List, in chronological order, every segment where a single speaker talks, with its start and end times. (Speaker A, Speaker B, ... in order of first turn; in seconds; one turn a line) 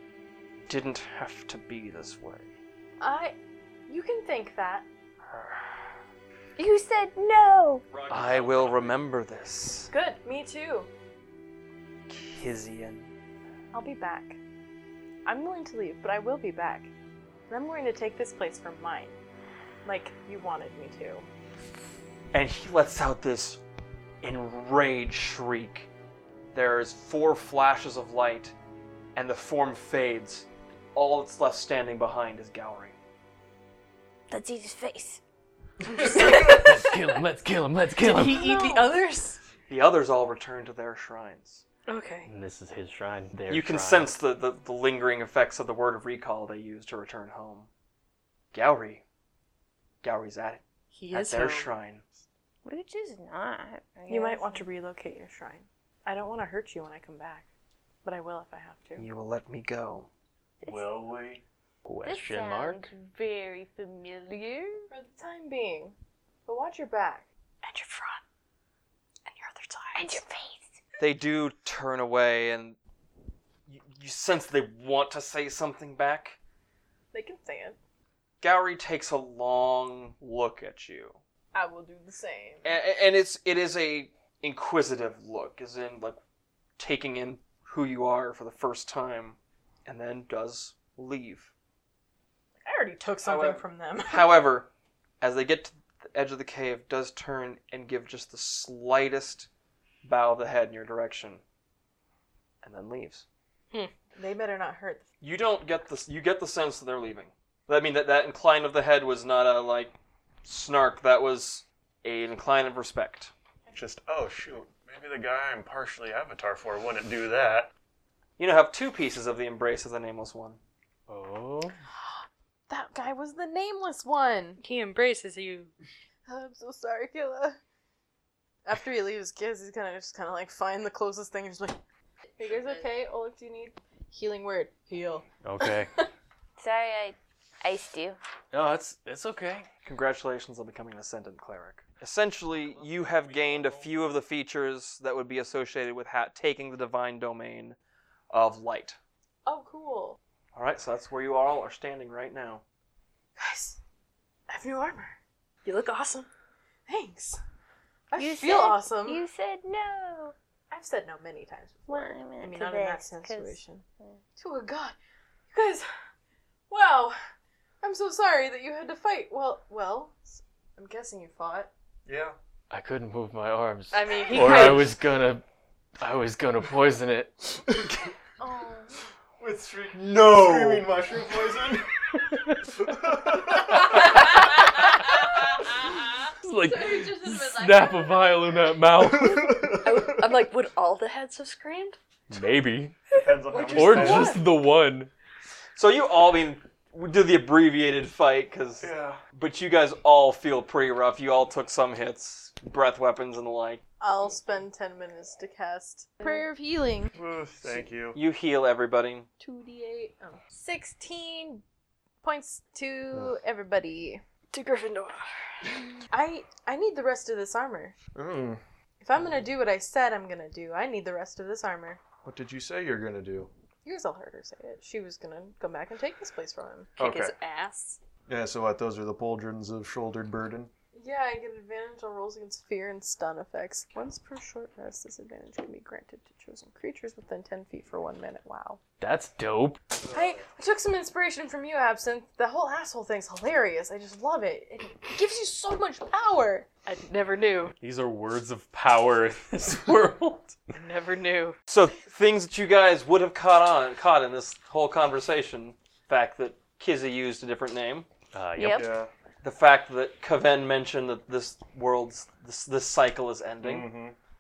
Speaker A: 0.7-2.5
Speaker B: 3.0-3.4
Speaker B: 3.9-4.9
Speaker A: 5.3-5.9
Speaker C: 6.6-7.9
Speaker D: 7.9-9.0
Speaker A: 8.1-9.9
Speaker B: 9.9-10.9
Speaker A: 12.1-13.1
Speaker B: 13.7-14.4
Speaker B: 15.3-16.9
Speaker B: 17.5-19.2
Speaker B: 19.8-21.3
Speaker A: 22.3-23.6
Speaker A: 24.2-25.9
Speaker A: 26.5-28.5
Speaker A: 29.1-33.0
Speaker C: 34.3-35.2
Speaker B: 35.9-37.0
Speaker D: 36.0-38.7
Speaker B: 38.0-39.4
Speaker E: 38.2-39.0
Speaker A: 39.7-41.6
Speaker E: 41.9-42.3
Speaker D: 42.3-44.1
Speaker A: 43.5-47.7
Speaker A: 48.5-49.0
Speaker A: 50.0-52.0
Speaker E: 50.9-51.7
Speaker C: 52.6-54.7
Speaker B: 54.1-57.5
Speaker B: 58.0-59.1
Speaker A: 59.0-60.1
Speaker C: 60.6-61.0
Speaker F: 60.6-61.4
Speaker D: 61.9-62.9
Speaker C: 62.0-64.9
Speaker B: 64.9-67.2
Speaker E: 67.6-68.2
Speaker E: 69.3-70.2
Speaker C: 70.0-70.7
Speaker A: 71.0-72.8
Speaker A: 73.7-76.4
Speaker B: 77.1-77.8
Speaker A: 78.4-81.2
Speaker B: 81.5-82.7
Speaker A: 82.6-86.2
Speaker A: 86.8-91.5
Speaker B: 92.7-94.4
Speaker A: 93.2-94.7
Speaker A: 95.2-99.5
Speaker A: 100.0-101.4
Speaker A: 102.6-103.2
Speaker B: 104.2-105.0
Speaker A: 105.2-113.3
Speaker F: 113.7-117.7
Speaker A: 118.4-120.6
Speaker D: 121.1-121.8
Speaker B: 122.7-124.6
Speaker E: 124.6-125.7
Speaker B: 126.3-127.6
Speaker B: 128.7-131.8
Speaker B: 132.4-136.1
Speaker D: 135.4-135.9
Speaker C: 136.6-138.2
Speaker D: 138.5-139.7
Speaker A: 139.9-147.8
Speaker A: 148.3-149.0
Speaker B: 149.5-150.2
Speaker A: 150.5-152.6
Speaker B: 153.4-153.8
Speaker B: 154.5-156.3
Speaker B: 156.9-157.4
Speaker B: 158.1-159.2
Speaker C: 158.2-160.3
Speaker B: 160.7-163.8
Speaker C: 161.9-164.2
Speaker B: 164.4-165.0
Speaker B: 165.5-165.9
Speaker B: 166.7-167.2
Speaker B: 167.8-171.7
Speaker F: 172.1-172.3
Speaker D: 172.7-175.4
Speaker E: 173.9-174.9
Speaker D: 176.0-177.7
Speaker B: 178.4-178.9
Speaker F: 179.4-182.1
Speaker A: 179.9-180.9
Speaker D: 182.3-182.8
Speaker F: 182.8-184.3
Speaker D: 186.3-189.7
Speaker F: 189.0-190.3
Speaker E: 189.6-192.0
Speaker D: 192.3-195.1
Speaker F: 193.1-194.5
Speaker E: 193.5-194.3
Speaker A: 195.8-203.8
Speaker F: 198.8-199.2
Speaker B: 204.0-207.2
Speaker F: 207.1-208.2
Speaker A: 208.1-209.3
Speaker B: 209.4-211.6
Speaker B: 212.2-214.2
Speaker E: 214.5-215.2
Speaker B: 216.1-218.0
Speaker F: 218.1-218.6
Speaker B: 219.0-222.0
Speaker F: 222.2-223.5
Speaker B: 223.8-226.9
Speaker E: 227.0-228.0
Speaker F: 227.0-227.3
Speaker F: 228.3-230.7
Speaker B: 230.9-238.8
Speaker D: 239.0-239.8
Speaker B: 240.1-246.7
Speaker E: 246.9-247.8
Speaker D: 247.8-250.6
Speaker E: 250.7-251.6
Speaker A: 251.7-258.1
Speaker D: 258.3-258.9
Speaker C: 258.6-258.9
Speaker F: 258.7-259.1
Speaker A: 259.4-263.9
Speaker F: 263.6-264.2